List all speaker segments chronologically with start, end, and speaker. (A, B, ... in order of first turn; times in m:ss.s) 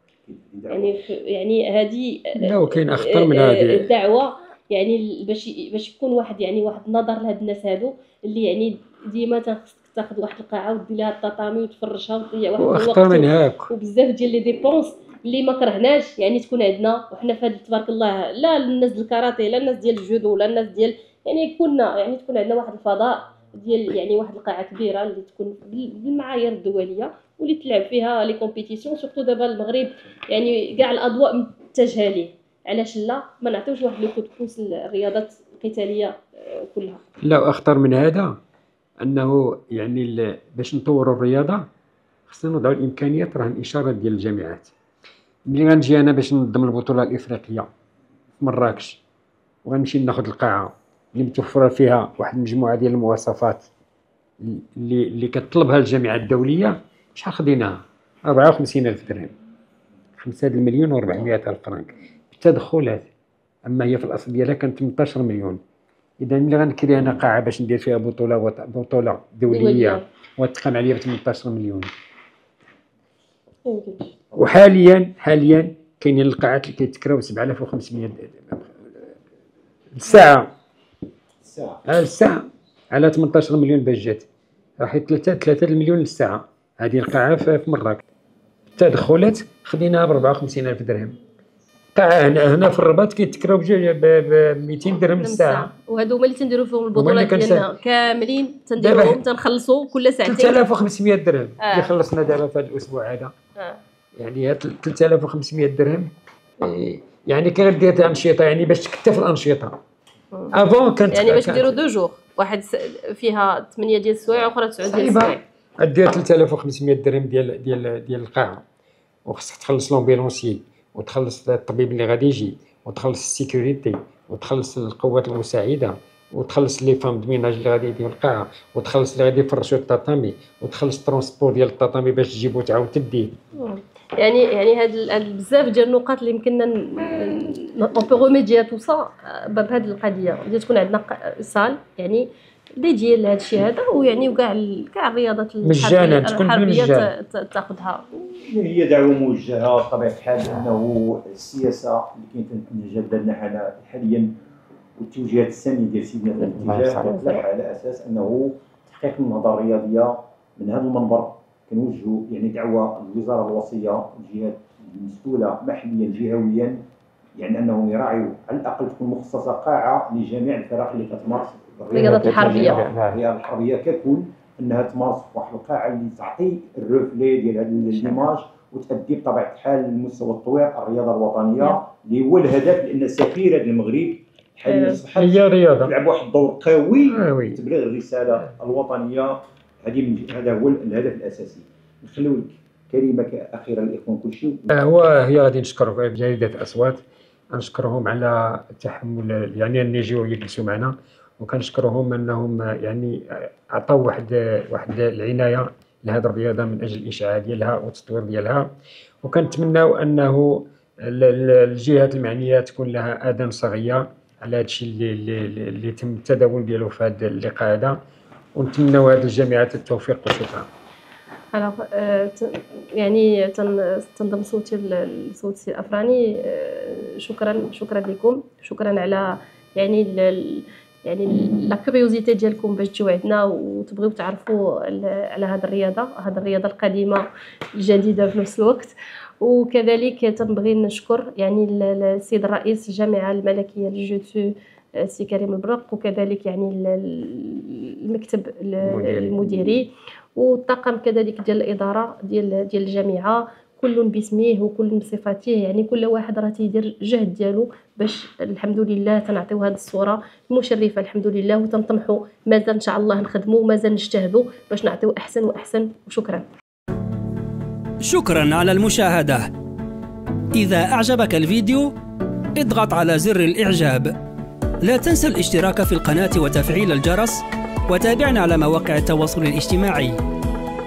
0:00.2-0:01.0 A
0:00.7-0:37.0 B
0:02.4-0:03.9 C
0:12.6-0:13.7 C
0:37.2-0:38.3 C
0:39.0-0:41.6 C
0:42.3-0:44.7 C
0:45.5-0:47.7 C
0:48.4-0:49.0 C
0:49.6-0:53.7 C
0:54.4-0:59.3 C
1:00.2-1:03.1 C
1:03.6-1:05.6 C
1:06.2-1:11.9 C
1:09.5-1:10.0 B
1:13.6-1:14.1 B
1:14.4-1:19.1 C
1:19.9-1:20.5 C
1:21.4-1:21.8 A
1:21.8-1:24.3 C
1:24.8-1:28.0 C
1:28.8-1:31.2 C
1:31.9-1:35.7 C
1:35.2-1:40.6 B
1:36.9-1:37.7 C
1:38.8-1:39.2 C
1:40.2-1:43.3 C
1:41.6-1:41.9 B
1:44.2-1:49.8 C
1:50.5-1:51.8 C
1:51.1-1:55.4 B
1:54.8-1:58.6 C
1:59.2-2:13.3 C
2:13.5-2:28.0 B
2:25.6-2:27.1 C
2:28.1-2:34.3 A
2:35.0-2:46.8 A
2:36.5-2:37.1 C
2:37.0-2:37.4 B
2:47.4-3:14.7 A
2:51.9-2:52.8 B
2:51.9-2:53.2 C
2:57.9-2:58.2 B
3:04.6-3:05.0 B
3:05.1-3:05.9 C
3:07.1-3:07.6 C
3:14.7-3:28.7 C
3:29.2-3:38.0 C
3:38.5-3:40.7 C
3:41.5-4:26.4 B
4:08.8-4:09.8 C
4:28.0-4:29.5 D
4:30.5-4:31.9 D
4:32.6-4:34.1 D
4:34.8-4:40.2 D